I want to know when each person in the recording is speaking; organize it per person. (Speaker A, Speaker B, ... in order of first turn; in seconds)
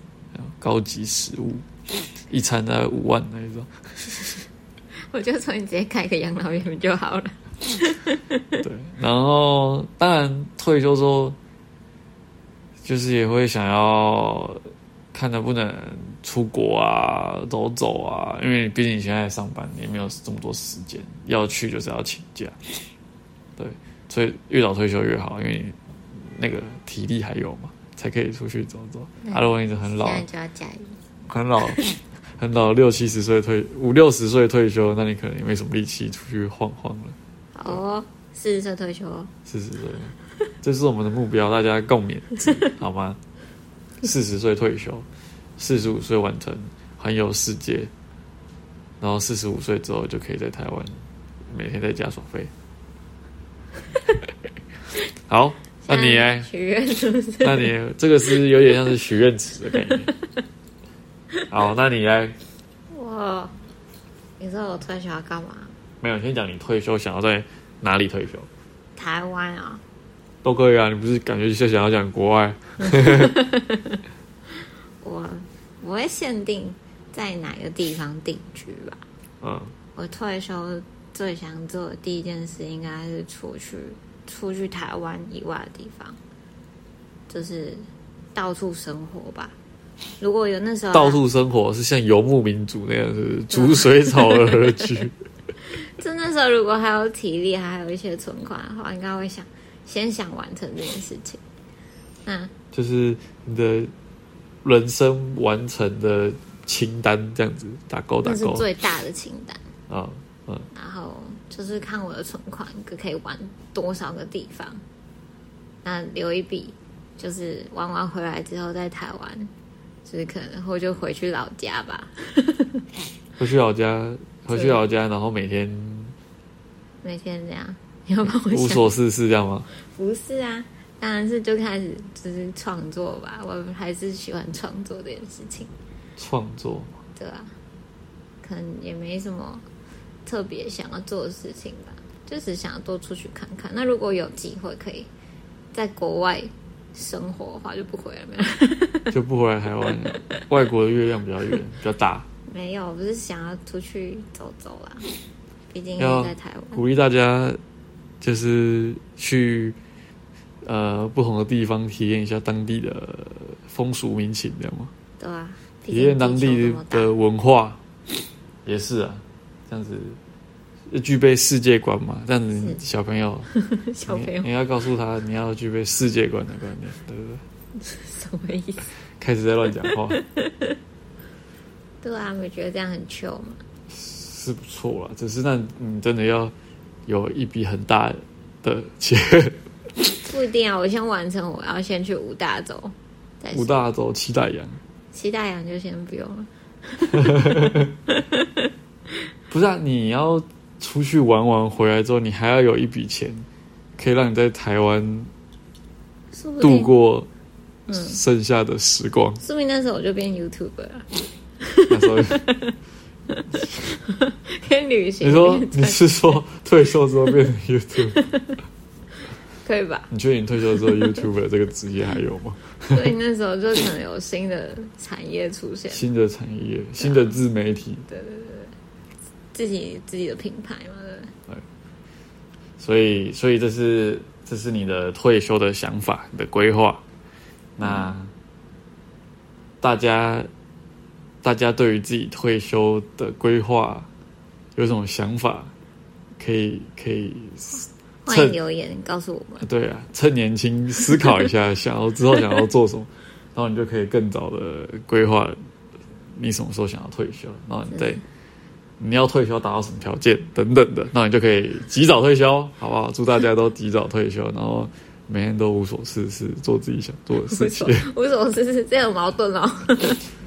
Speaker A: 0.3-1.7, 2.3-4.4, 8.6-11.4, 12.8-14.6, 15.1-22.6, 23.6-30.2, 31.3-37.2, 39.5-43.2, 44.0-45.1, 45.6-47.9, 49.0-51.0, 51.5-52.5, 55.3-56.5, 57.4-60.1, 61.5-62.4, 66.0-68.5, 70.4-73.4, 79.4-79.7, 90.9-95.2, 102.7-103.9, 104.6-108.7, 109.9-110.7, 123.4-126.2, 128.5-129.7, 136.2-136.9, 149.1-152.2, 156.0-157.6, 158.2-159.8, 160.7-164.9, 165.9-167.8, 168.7-170.2, 170.9-173.5, 174.1-177.4, 179.2-180.2, 183.9-186.5, 187.1-189.6, 193.5-194.8, 197.3-197.8, 199.5-203.5, 204.0-205.3, 206.6-207.3, 207.9-209.4, 211.9-212.4, 215.2-218.2, 220.1-223.1, 225.9-228.1, 232.8-237.0, 237.8-238.3, 239.8-240.5, 241.4-244.1, 244.8-245.7, 246.4-248.6, 249.6-255.6, 256.3-258.2, 259.0-268.1
Speaker B: 5.1-8.7, 29.2-31.0, 37.5-39.3, 55.8-57.7, 59.7-60.2, 62.9-63.5, 64.4-65.7, 69.0-69.8, 73.0-74.0, 75.0-79.0, 80.0-86.2, 87.3-89.6, 90.2-91.2, 93.5-94.9, 95.7-101.4, 102.2-102.5, 108.2-109.6, 110.7-114.8, 115.8-119.5, 120.1-122.8, 124.5-124.8, 127.0-128.9, 129.8-135.7, 137.2-137.5, 138.4-139.7, 140.2-145.1, 145.7-149.2, 152.5-155.1, 155.7-156.8, 165.2-167.1, 173.5-174.5, 177.8-178.9, 179.9-180.8, 182.0-183.6, 190.3-193.8, 195.1-198.7, 206.3-206.9, 207.9-208.2, 209.4-212.8, 213.3-216.4, 218.1-218.6, 219.6-220.1, 220.7-221.2, 222.9-226.1, 227.0-227.4, 228.1-228.8, 229.5-231.3, 237.8-238.1, 248.2-249.7, 257.9-258.2, 267.4-270.3